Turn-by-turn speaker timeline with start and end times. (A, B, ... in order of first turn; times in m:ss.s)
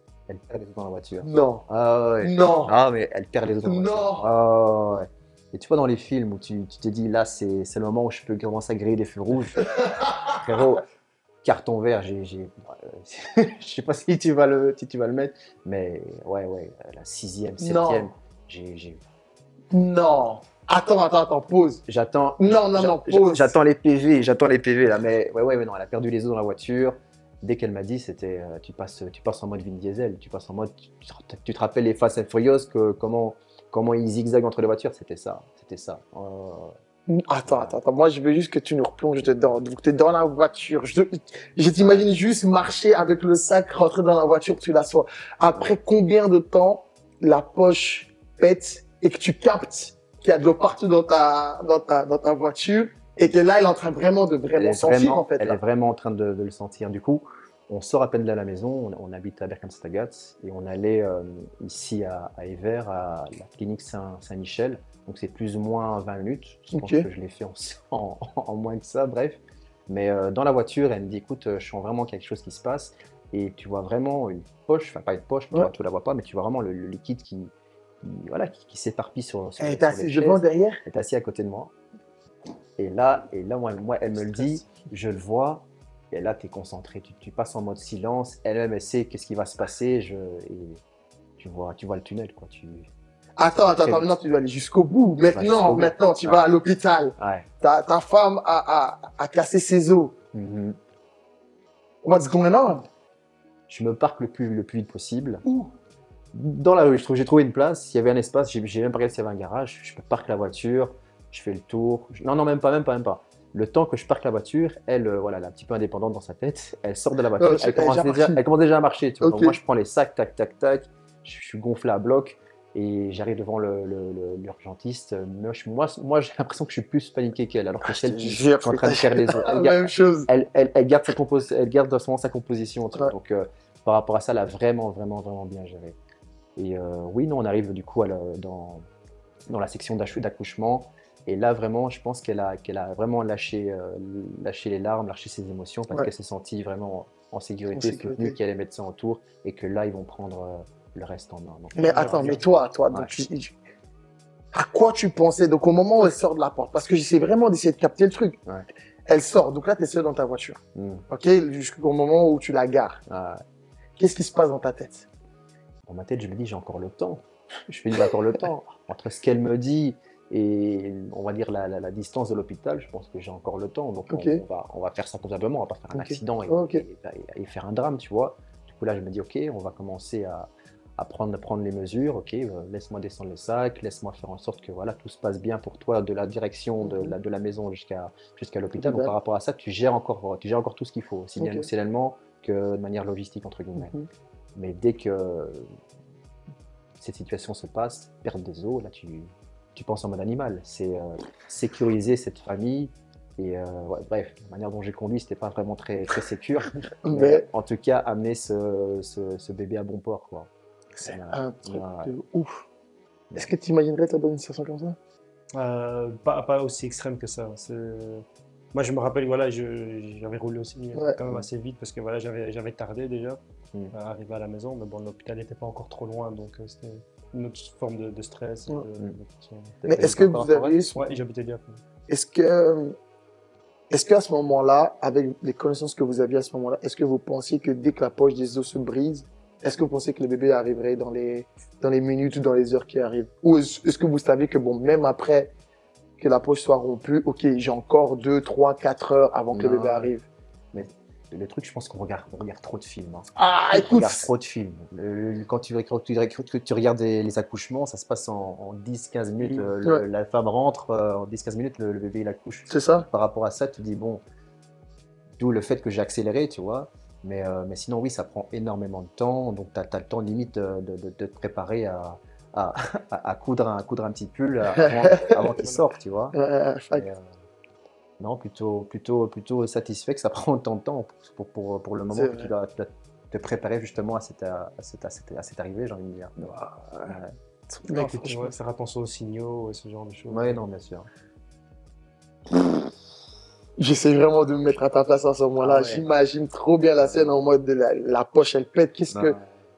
0:00.3-0:10.8 A
0:01.2-0:01.6 B
0:02.2-0:02.7 B
0:03.6-0:04.2 B
0:09.7-0:10.3 B
0:11.4-0:19.0 A
0:17.6-0:18.1 B
0:19.7-0:21.8 B
0:21.9-0:36.8 A
0:22.4-0:23.5 B
0:37.1-0:55.6 B
0:37.5-0:37.8 A
0:41.8-0:42.0 A
0:54.6-1:21.7 A
1:06.7-1:07.1 B
1:19.6-1:20.8 B
1:22.8-1:30.8 A
1:31.4-1:32.9 A
1:33.4-1:40.2 B
1:33.7-1:34.1 A
1:35.3-1:36.4 A
1:37.2-1:37.5 A
1:40.3-1:40.8 A
1:42.0-1:42.9 B
1:43.7-1:45.4 A
1:45.4-1:45.7 B
1:46.3-2:16.0 A
1:57.4-1:58.4 B
1:59.2-1:59.6 B
2:07.8-2:10.3 B
2:16.6-2:18.9 A
2:19.5-2:32.4 A
2:27.8-2:28.4 B
2:31.8-2:33.6 B
2:31.9-2:32.4 C
2:32.9-2:33.2 A
2:34.5-2:38.4 B
2:39.1-2:43.0 B
2:40.8-2:41.1 A
2:43.1-2:43.4 A
2:44.0-2:45.1 B
2:45.9-3:14.0 A
2:54.1-2:54.4 B
2:55.9-2:56.8 B
3:06.8-3:07.2 B
3:08.8-3:09.1 B
3:11.4-3:11.7 B
3:13.8-3:14.1 B
3:14.6-3:15.7 A
3:17.0-3:30.5 A
3:27.0-3:27.5 B
3:31.0-3:32.6 B
3:31.0-3:32.1 A
3:33.4-3:35.0 B
3:35.5-3:43.4 C
3:43.9-3:49.8 C
3:49.8-3:50.8 A
3:49.9-3:51.1 B
3:51.0-3:51.8 C
3:52.1-3:53.0 B
3:53.9-4:05.5 B
4:06.2-4:10.3 B
4:09.5-4:10.1 A
4:10.7-4:24.2 A
4:13.4-4:14.3 B
4:19.4-4:19.7 C
4:22.7-4:23.1 B
4:25.4-4:36.4 A
4:34.8-4:35.3 B
4:36.3-4:37.1 B
4:37.0-4:37.3 A
4:38.2-4:47.4 A
4:42.1-4:42.5 B
4:46.5-4:47.2 B
4:47.7-4:48.6 B
4:47.9-4:50.6 C
4:50.3-4:51.1 A
4:52.5-4:52.9 B
4:53.8-4:59.4 B
4:55.6-4:56.0 C
4:57.0-4:57.4 A
4:59.1-4:59.5 A